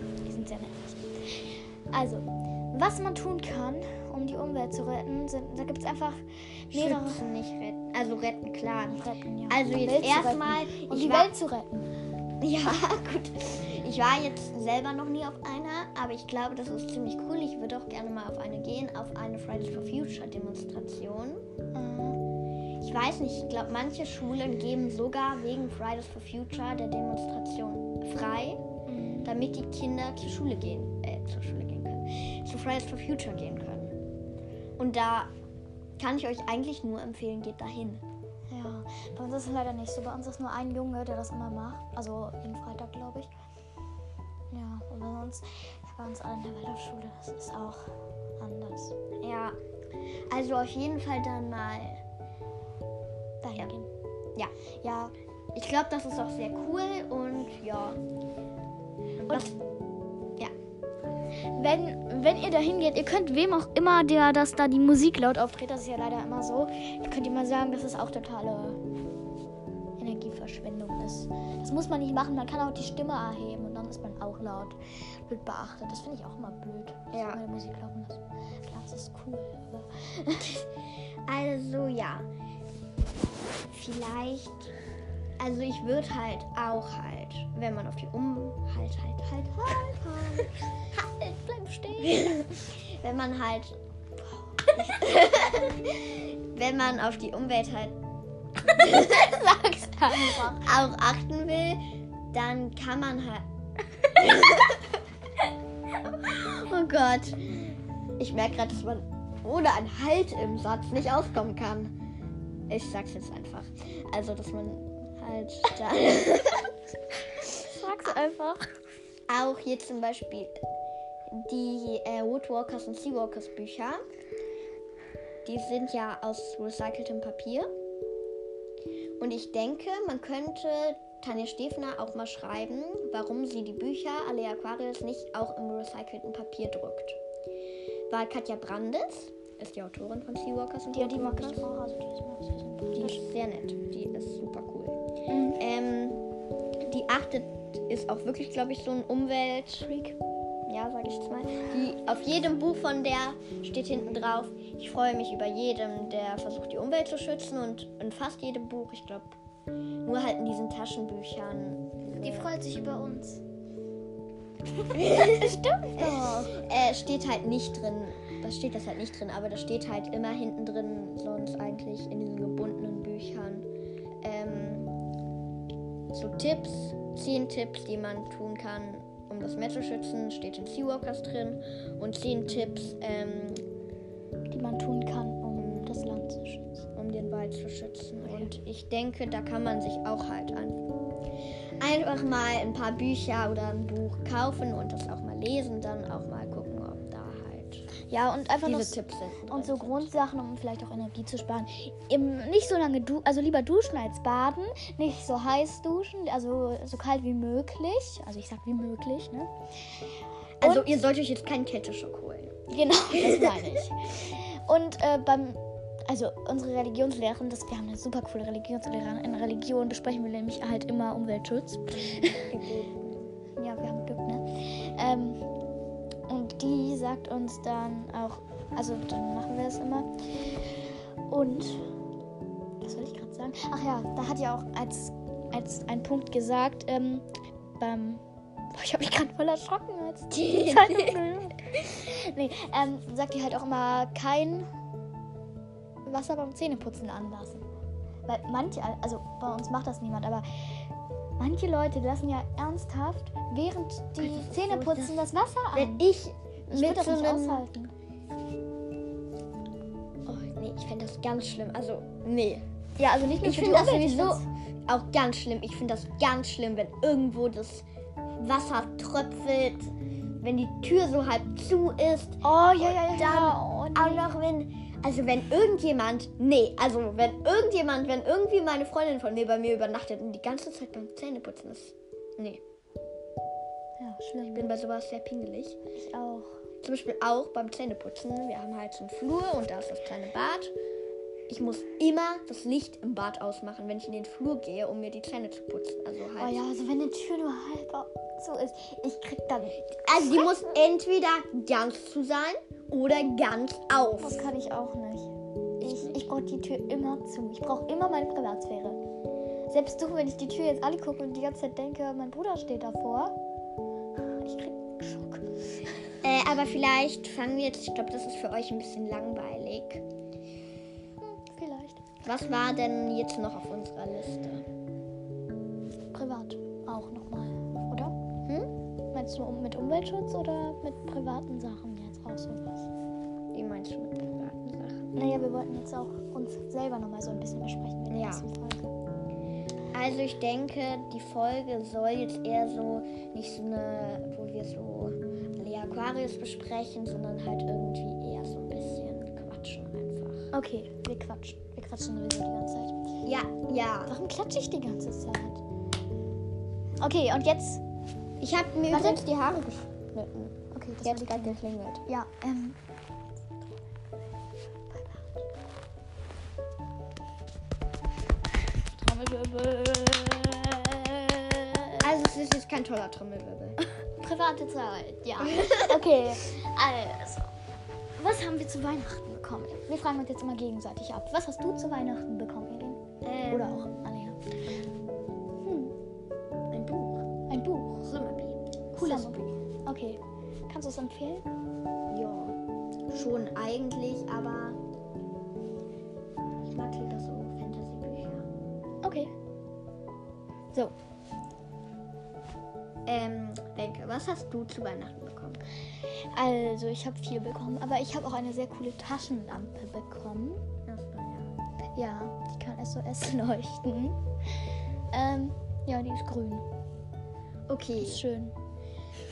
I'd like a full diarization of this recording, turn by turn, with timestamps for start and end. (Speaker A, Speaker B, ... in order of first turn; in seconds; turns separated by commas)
Speaker A: 0.2-7.3, Speaker B: 6.7-11.3, Speaker A: 8.9-11.9, Speaker B: 12.4-21.4, Speaker A: 21.7-22.2, Speaker B: 22.8-28.6, Speaker A: 28.9-29.3, Speaker B: 29.2-34.0, Speaker B: 34.8-35.3, Speaker B: 36.0-38.0, Speaker A: 38.5-43.3, Speaker A: 44.5-49.0, Speaker B: 49.2-49.6, Speaker B: 50.3-52.0, Speaker A: 53.4-53.9, Speaker A: 54.8-55.1, Speaker B: 55.5-58.0, Speaker B: 59.2-59.6, Speaker A: 59.3-59.5, Speaker A: 61.5-68.8, Speaker A: 70.0-80.6, Speaker B: 77.1-77.5, Speaker B: 81.3-82.3, Speaker B: 83.7-84.7, Speaker B: 85.4-90.5, Speaker A: 90.9-92.4, Speaker B: 92.0-93.8, Speaker B: 94.8-98.0, Speaker A: 98.7-100.8, Speaker B: 98.9-99.3, Speaker B: 100.4-101.8, Speaker B: 102.3-103.5, Speaker B: 104.0-105.0, Speaker B: 106.0-112.0, Speaker B: 112.7-116.7, Speaker A: 117.6-118.7, Speaker B: 119.3-120.6, Speaker B: 121.3-124.0, Speaker B: 125.5-127.7, Speaker B: 129.2-137.2, Speaker B: 138.1-141.7, Speaker A: 140.9-143.2, Speaker B: 143.0-145.0, Speaker A: 145.3-145.6, Speaker B: 145.6-146.2, Speaker B: 146.8-149.9, Speaker A: 149.8-150.2, Speaker B: 150.7-159.4, Speaker B: 160.0-162.5, Speaker A: 162.2-163.4, Speaker A: 164.8-166.6, Speaker B: 164.9-173.7, Speaker B: 174.2-175.0, Speaker B: 176.1-183.6, Speaker A: 184.5-186.9, Speaker B: 185.6-186.1, Speaker B: 186.9-190.9, Speaker A: 188.2-188.5, Speaker B: 191.8-197.9, Speaker A: 198.0-209.5, Speaker B: 198.6-200.1, Speaker B: 210.6-212.6, Speaker A: 210.6-210.9, Speaker A: 212.7-222.5, Speaker B: 213.1-213.7, Speaker B: 222.5-223.3, Speaker A: 223.6-225.4, Speaker A: 226.3-230.6, Speaker A: 231.3-231.9, Speaker A: 232.8-237.3, Speaker A: 237.8-244.7, Speaker B: 240.3-241.2, Speaker A: 246.1-247.7, Speaker A: 248.3-250.5, Speaker A: 251.4-256.0, Speaker B: 254.2-257.6, Speaker A: 256.7-257.9, Speaker B: 260.3-262.6, Speaker A: 263.0-264.5, Speaker B: 263.4-267.9, Speaker B: 268.4-282.6, Speaker A: 272.4-274.3, Speaker A: 284.0-284.7, Speaker B: 284.4-285.8, Speaker A: 286.0-286.5, Speaker B: 286.8-290.7, Speaker B: 291.5-296.6, Speaker A: 296.4-300.7, Speaker B: 300.0-304.5, Speaker A: 304.2-309.0, Speaker B: 305.8-306.2, Speaker A: 309.7-313.4, Speaker A: 314.2-315.5, Speaker B: 316.2-320.1, Speaker A: 321.2-322.1, Speaker B: 322.2-324.6, Speaker A: 326.1-328.1, Speaker A: 329.1-332.9, Speaker B: 333.5-335.1, Speaker A: 335.2-338.9, Speaker B: 338.1-338.4, Speaker B: 339.9-350.5, Speaker A: 350.5-353.1, Speaker B: 353.2-354.1, Speaker A: 354.1-355.6, Speaker A: 357.0-357.8, Speaker B: 358.4-362.0, Speaker A: 358.9-359.2, Speaker A: 360.7-362.8, Speaker A: 364.9-365.4, Speaker A: 368.9-372.1, Speaker B: 372.0-373.8, Speaker A: 374.2-377.5, Speaker B: 375.5-376.0, Speaker A: 378.2-384.4, Speaker B: 383.2-383.9, Speaker A: 385.6-385.9, Speaker B: 386.7-387.2, Speaker A: 387.5-388.1, Speaker B: 388.0-389.6, Speaker A: 388.9-391.4, Speaker B: 392.1-392.6, Speaker B: 393.1-394.8, Speaker B: 396.6-398.5, Speaker A: 399.0-399.3, Speaker B: 403.1-405.6, Speaker A: 406.1-410.6, Speaker B: 410.9-411.5, Speaker A: 412.0-416.6, Speaker B: 417.7-418.2, Speaker A: 418.0-418.6